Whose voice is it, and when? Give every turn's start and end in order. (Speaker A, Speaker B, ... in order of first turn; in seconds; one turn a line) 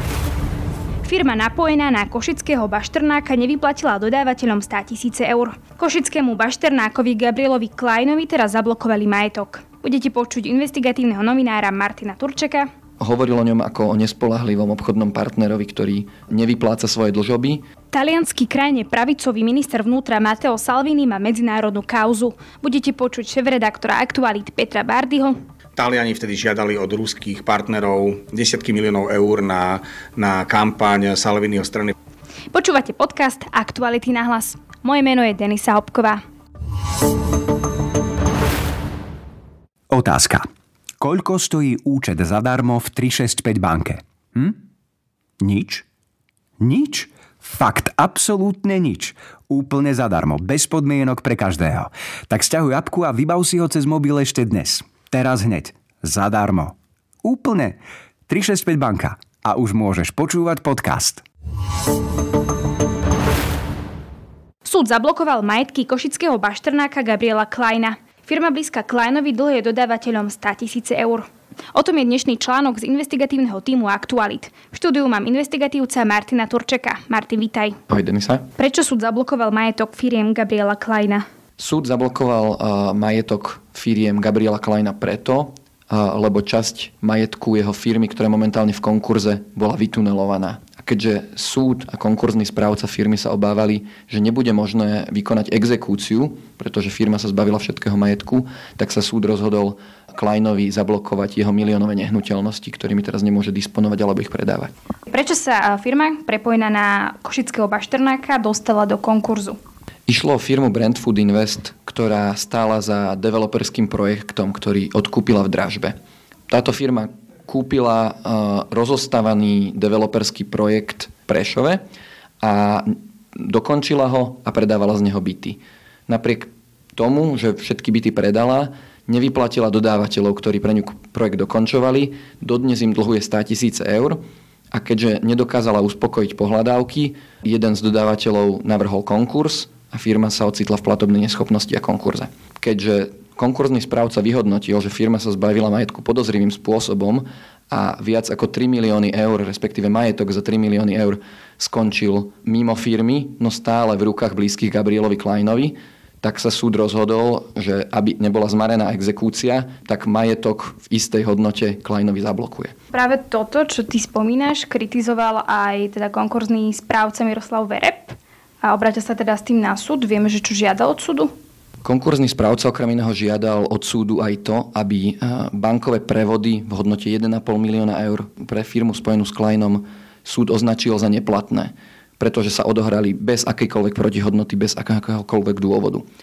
Speaker A: 1.1-12.7
Speaker B: 13.0-17.6
Speaker A: 17.9-25.4
Speaker C: 25.8-31.9
Speaker A: 32.5-36.2
Speaker D: 39.9-40.5
Speaker D: 41.0-44.6
Speaker D: 45.4-45.8
Speaker D: 46.6-61.2
Speaker A: 64.7-77.8
Speaker B: 77.9-78.5
Speaker A: 78.6-81.2
Speaker B: 81.6-104.7
Speaker A: 105.1-109.6
Speaker B: 110.1-116.0
Speaker B: 116.5-121.8
Speaker B: 122.4-134.2
Speaker B: 134.7-162.7
Speaker A: 162.9-171.3
Speaker B: 171.8-186.0